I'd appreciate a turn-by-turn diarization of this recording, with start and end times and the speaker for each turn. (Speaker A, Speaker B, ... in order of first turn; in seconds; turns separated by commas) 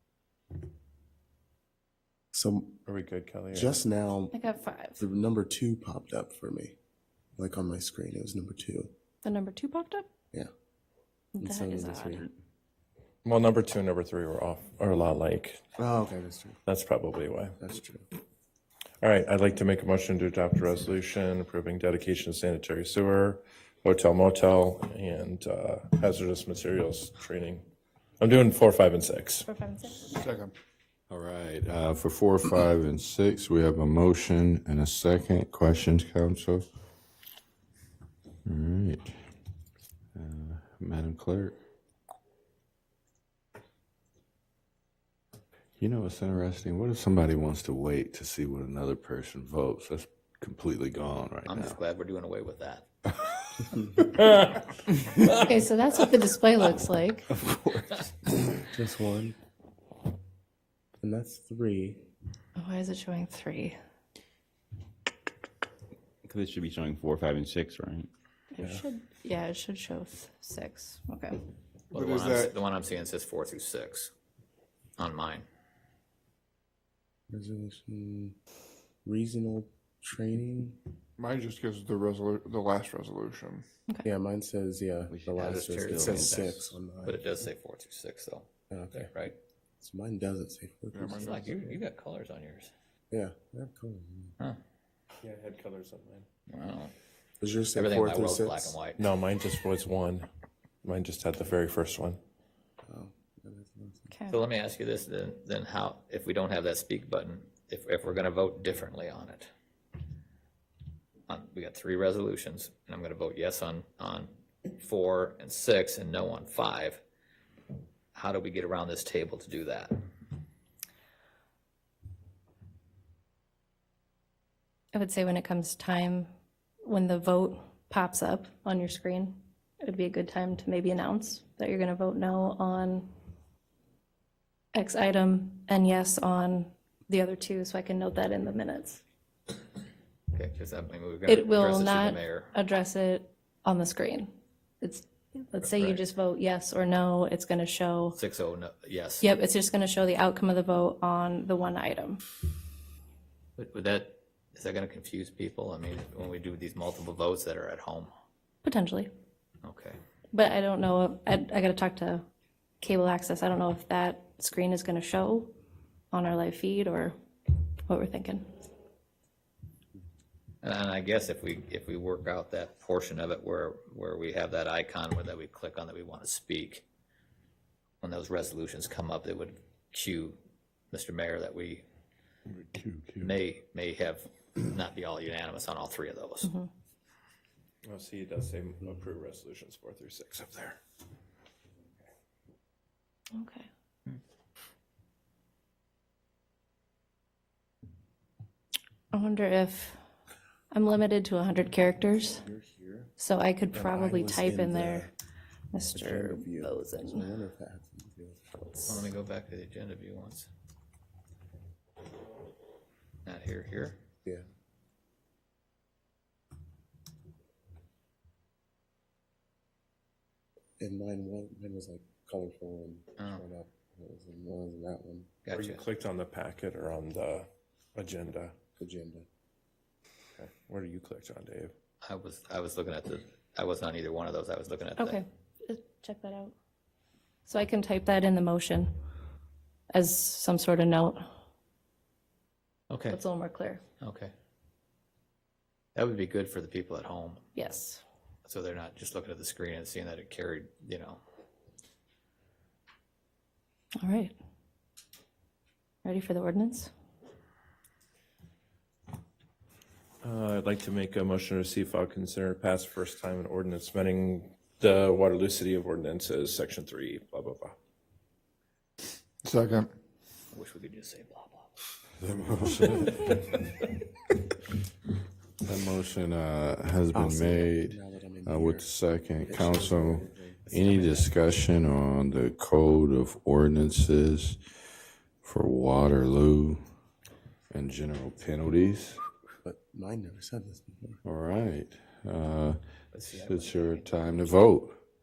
Speaker A: 2.3-2.8, Speaker B: 2.9-3.8, Speaker A: 3.5-4.4, Speaker C: 4.3-5.0, Speaker A: 5.0-6.8, Speaker A: 7.4-8.9, Speaker C: 9.2-10.1, Speaker C: 11.4-12.3, Speaker A: 11.4-12.2, Speaker B: 13.2-15.6, Speaker A: 15.8-16.6, Speaker B: 16.7-17.6, Speaker A: 17.6-18.1, Speaker B: 19.0-27.6, Speaker B: 28.2-29.5, Speaker C: 29.5-30.1, Speaker D: 30.1-30.5, Speaker E: 31.1-36.6, Speaker E: 38.5-39.1, Speaker E: 40.1-41.6, Speaker E: 45.8-51.8, Speaker F: 51.5-52.9, Speaker A: 53.8-54.1, Speaker B: 54.2-54.7, Speaker B: 55.2-55.5, Speaker C: 55.3-57.3, Speaker G: 57.5-57.8, Speaker A: 58.5-59.4, Speaker A: 61.0-62.1, Speaker C: 62.6-63.8, Speaker G: 66.2-68.1, Speaker C: 68.5-71.4, Speaker F: 71.9-74.1, Speaker D: 71.9-72.6, Speaker F: 75.0-75.5, Speaker A: 77.3-78.4, Speaker A: 79.0-80.8, Speaker D: 81.2-83.7, Speaker A: 84.0-87.3, Speaker G: 85.1-86.5, Speaker F: 85.4-88.5, Speaker A: 88.7-89.1, Speaker A: 89.8-91.6, Speaker D: 90.9-91.6, Speaker F: 91.2-92.7, Speaker A: 93.1-94.4, Speaker B: 95.2-96.3, Speaker F: 96.5-96.9, Speaker A: 97.4-98.8, Speaker F: 97.7-99.1, Speaker B: 99.0-100.3, Speaker B: 100.8-102.2, Speaker A: 102.8-104.1, Speaker C: 104.1-104.4, Speaker F: 104.3-109.5, Speaker F: 111.3-117.0, Speaker F: 118.2-120.0, Speaker C: 124.9-126.3, Speaker C: 126.8-133.1, Speaker C: 134.7-139.0, Speaker F: 140.3-142.5, Speaker C: 141.3-144.3, Speaker C: 144.8-148.2, Speaker F: 145.6-146.0, Speaker F: 148.1-149.3, Speaker C: 149.2-152.2, Speaker F: 153.6-158.1, Speaker C: 158.6-159.1, Speaker F: 159.6-160.0, Speaker C: 160.3-162.2, Speaker C: 162.8-165.5, Speaker C: 166.1-167.2, Speaker C: 167.9-168.5, Speaker F: 170.6-176.8, Speaker F: 178.0-180.4, Speaker F: 180.9-181.8, Speaker E: 182.5-183.4, Speaker F: 183.2-186.5, Speaker B: 187.8-190.8, Speaker C: 193.3-193.7, Speaker C: 199.1-200.0, Speaker C: 200.7-202.4, Speaker A: 202.2-203.1, Speaker C: 203.2-205.1, Speaker A: 203.7-205.1, Speaker C: 205.7-207.3, Speaker A: 205.9-208.4, Speaker C: 208.6-209.1, Speaker F: 208.9-210.5, Speaker F: 213.2-214.0, Speaker A: 220.8-225.3, Speaker F: 223.2-223.4, Speaker F: 225.4-225.8, Speaker B: 225.5-228.5, Speaker A: 228.8-229.3, Speaker B: 230.4-231.7, Speaker F: 232.0-235.2, Speaker C: 235.0-236.5, Speaker C: 237.5-238.9, Speaker C: 239.9-241.3, Speaker F: 242.9-243.2, Speaker C: 243.1-243.8, Speaker F: 244.0-244.3, Speaker F: 246.0-247.5, Speaker C: 247.6-248.0, Speaker F: 248.4-251.2, Speaker C: 254.0-254.3, Speaker C: 256.0-256.9, Speaker B: 260.2-267.8, Speaker D: 269.4-269.9, Speaker F: 270.5-271.7, Speaker E: 272.2-273.5, Speaker E: 275.6-284.6, Speaker A: 277.1-281.3, Speaker E: 285.4-286.8, Speaker E: 287.7-289.2, Speaker A: 289.6-291.2, Speaker E: 291.2-292.8, Speaker F: 293.1-294.6, Speaker E: 293.3-295.0